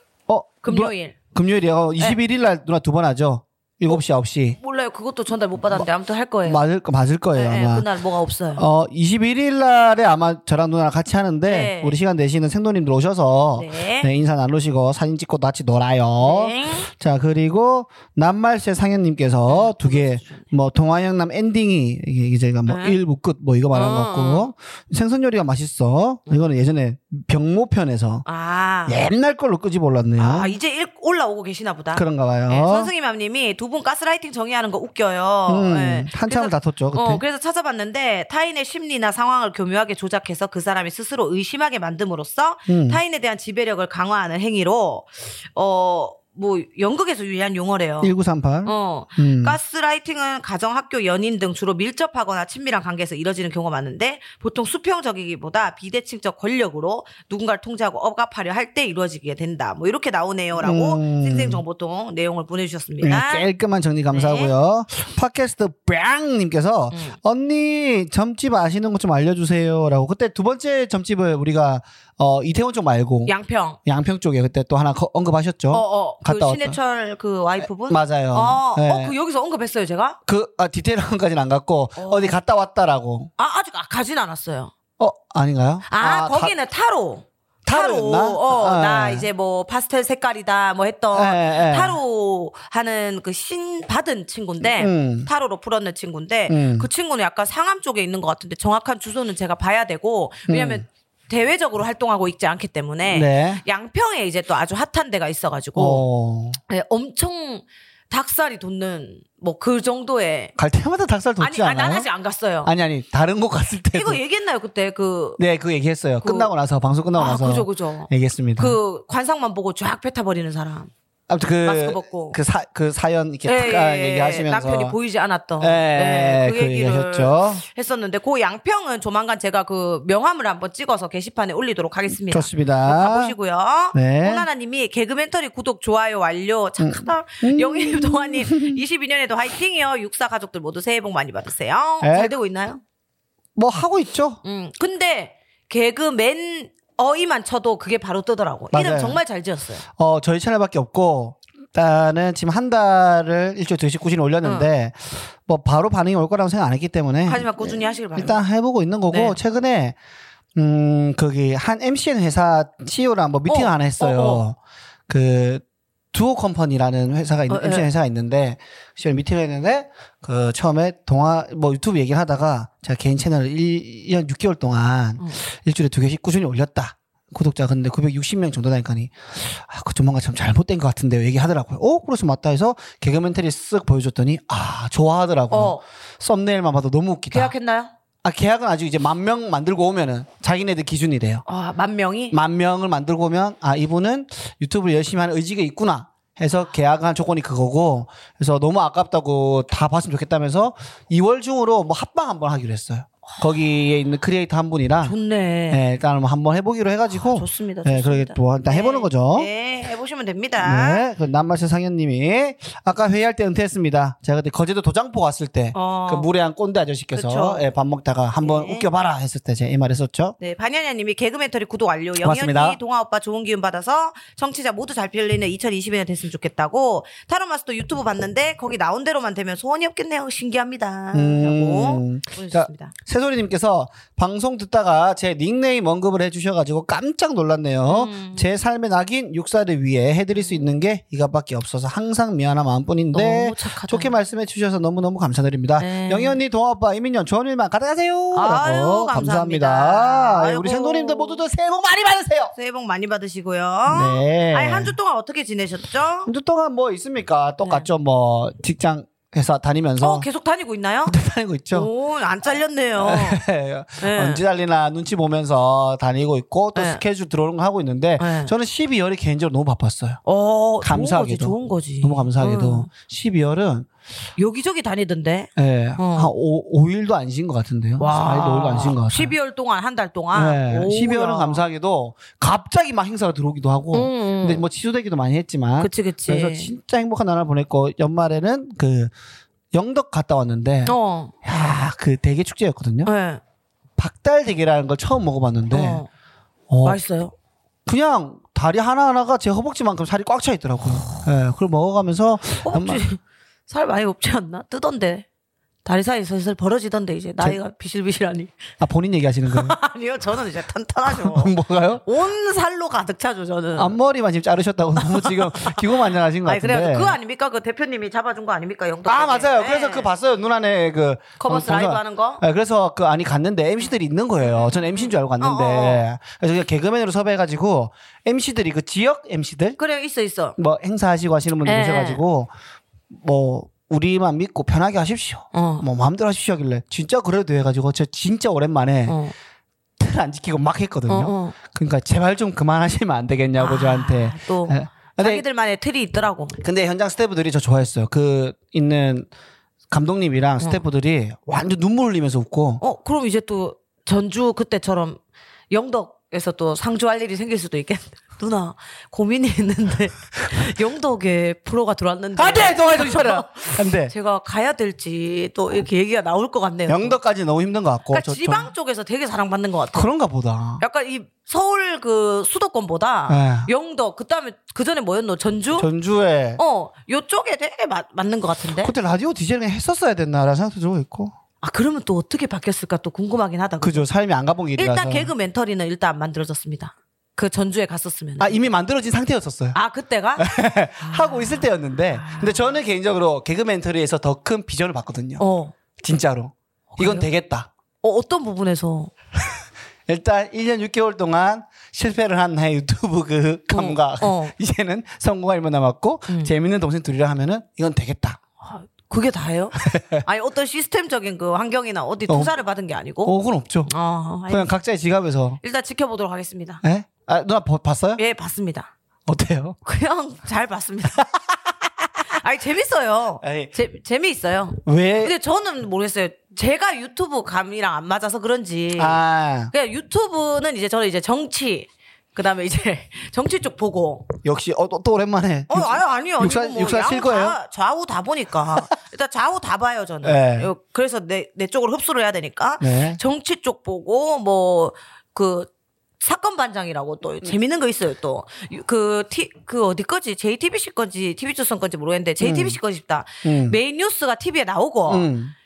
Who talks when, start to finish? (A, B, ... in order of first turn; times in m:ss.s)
0:00.3-0:04.6 A
0:00.6-0:01.2 B
0:04.6-0:06.6 B
0:06.4-0:07.9 A
0:07.3-0:08.6 B
0:08.6-0:28.2 A
0:11.4-0:12.0 B
0:13.5-0:14.1 B
0:16.2-0:16.9 B
0:19.5-0:20.4 B
0:22.7-0:23.0 B
0:23.7-0:24.5 B
0:28.2-0:29.0 B
0:28.8-0:30.5 A
0:30.2-0:48.1 B
0:31.9-0:32.9 A
0:35.5-0:37.2 A
0:42.7-0:43.0 A
0:48.0-0:49.6 A
0:48.6-1:03.5 B
1:00.6-1:01.6 A
1:03.0-1:13.3 A
1:04.1-1:04.5 B
1:06.9-1:07.2 B
1:13.3-1:13.8 B
1:13.8-1:16.8 A
1:15.7-1:20.2 B
1:17.6-1:19.1 A
1:20.3-1:23.3 A
1:22.0-1:22.3 B
1:23.4-1:24.7 B
1:25.0-1:26.5 A
1:25.9-1:46.0 B
1:27.6-1:29.3 A
1:31.1-1:32.0 A
1:34.6-1:35.3 A
1:36.5-1:36.9 A
1:40.5-1:40.8 A
1:43.0-1:43.6 A
1:45.8-1:46.6 A
1:46.7-1:50.5 B
1:50.6-1:52.1 A
1:51.4-1:52.7 B
1:52.6-1:54.2 A
1:53.9-1:55.4 B
1:55.4-1:58.8 A
1:56.2-1:56.5 B
1:57.1-2:00.9 B
2:01.3-2:05.0 A
2:01.6-2:02.4 B
2:03.4-2:22.8 B
2:05.6-2:07.6 A
2:12.3-2:13.3 A
2:13.9-2:14.5 A
2:16.8-2:18.8 A
2:22.0-2:22.3 A
2:23.6-2:24.4 A
2:24.4-2:29.8 B
2:28.7-2:29.2 A
2:30.0-2:40.0 A
2:37.3-2:38.4 B
2:39.1-2:39.4 B
2:40.5-2:44.6 A
2:43.5-2:44.4 B
2:45.1-3:07.5 A
2:47.5-2:47.9 B
3:05.5-3:05.8 B
3:07.3-3:07.9 B
3:08.2-3:11.4 A
3:11.4-3:12.4 B
3:12.3-3:25.2 A
3:25.0-3:25.8 B
3:25.7-3:29.5 A
3:27.1-3:31.0 B
3:30.6-3:40.4 A
3:35.7-3:36.3 B
3:37.1-3:37.6 B
3:38.4-3:38.8 B
3:40.4-3:52.9 B
3:42.2-3:42.8 A
3:51.1-4:12.5 A
3:57.9-3:58.5 B
4:00.3-4:00.6 B
4:03.1-4:04.1 B
4:05.8-4:06.4 B
4:08.3-4:11.4 B
4:12.5-4:16.3 B
4:13.9-4:14.9 A
4:16.2-4:20.2 A
4:17.6-4:17.9 B
4:20.0-4:21.2 B
4:21.1-4:21.9 A
4:21.7-4:23.4 B
4:23.0-4:30.2 A
4:24.0-4:24.4 B
4:26.7-4:27.0 B
4:28.2-4:28.5 B
4:30.2-4:32.9 B
4:30.8-4:33.9 A
4:34.4-4:36.3 B
4:35.6-4:39.3 A
4:38.0-4:41.6 B
4:40.3-4:49.1 A
4:43.9-4:44.6 B
4:45.8-4:46.7 B
4:49.7-4:53.1 A
4:50.8-4:51.3 B
4:53.0-4:53.4 B
4:54.0-4:56.0 A
4:55.7-4:56.1 B
4:56.7-4:57.0 A
4:56.8-4:57.3 B
4:57.8-5:03.0 A
5:02.6-5:05.2 B
5:05.8-5:08.7 B
5:08.8-5:09.8 A
5:09.5-5:14.0 B
5:11.0-5:12.0 A
5:13.8-5:17.2 A
5:15.0-5:20.1 B
5:19.0-5:29.8 A
5:21.4-5:22.4 B
5:24.5-5:26.1 B
5:29.8-5:30.6 B
5:30.6-5:32.5 A
5:31.6-5:32.2 B
5:33.1-5:39.2 A
5:35.5-5:35.8 B
5:39.1-5:39.3 B
5:40.0-5:45.4 A
5:41.1-5:41.6 B
5:43.6-5:46.6 B
5:46.6-5:49.3 A
5:49.9-5:52.8 A
5:52.8-5:55.2 B
5:55.7-6:07.2 B
6:02.4-6:04.1 A
6:06.9-6:08.7 A
6:08.1-6:10.1 B
6:09.9-6:10.8 A
6:10.8-6:15.9 B
6:13.3-6:13.7 A
6:15.8-6:16.6 A
6:16.6-6:18.9 B
6:18.8-6:21.3 A
6:21.6-6:24.0 B
6:23.8-6:25.3 A
6:24.8-6:28.6 B
6:28.4-6:29.8 A
6:29.7-6:32.8 B
6:30.4-6:35.4 A
6:35.4-6:35.7 B
6:36.0-6:37.7 A
6:36.9-6:37.3 B
6:38.0-6:39.1 B
6:40.1-6:48.4 A
6:43.7-6:44.5 B
6:46.3-6:46.5 B
6:48.6-6:53.3 B
6:49.8-6:50.2 A
6:52.3-6:52.5 A
6:53.2-6:53.9 A
6:53.9-6:54.7 B
6:54.5-6:55.6 A
6:55.6-6:56.8 B
6:56.8-6:58.2 A
6:58.2-6:58.9 B
6:59.3-6:59.8 A
6:59.8-7:01.3 B
7:02.3-7:09.2 B
7:03.4-7:03.7 A
7:04.8-7:05.3 A
7:09.0-7:09.7 A
7:09.7-7:14.3 B
7:14.4-7:17.6 A
7:15.7-7:35.3 B
7:20.2-7:20.7 A
7:22.8-7:23.2 A
7:32.4-7:32.8 A
7:33.4-7:33.8 A
7:35.1-7:35.5 A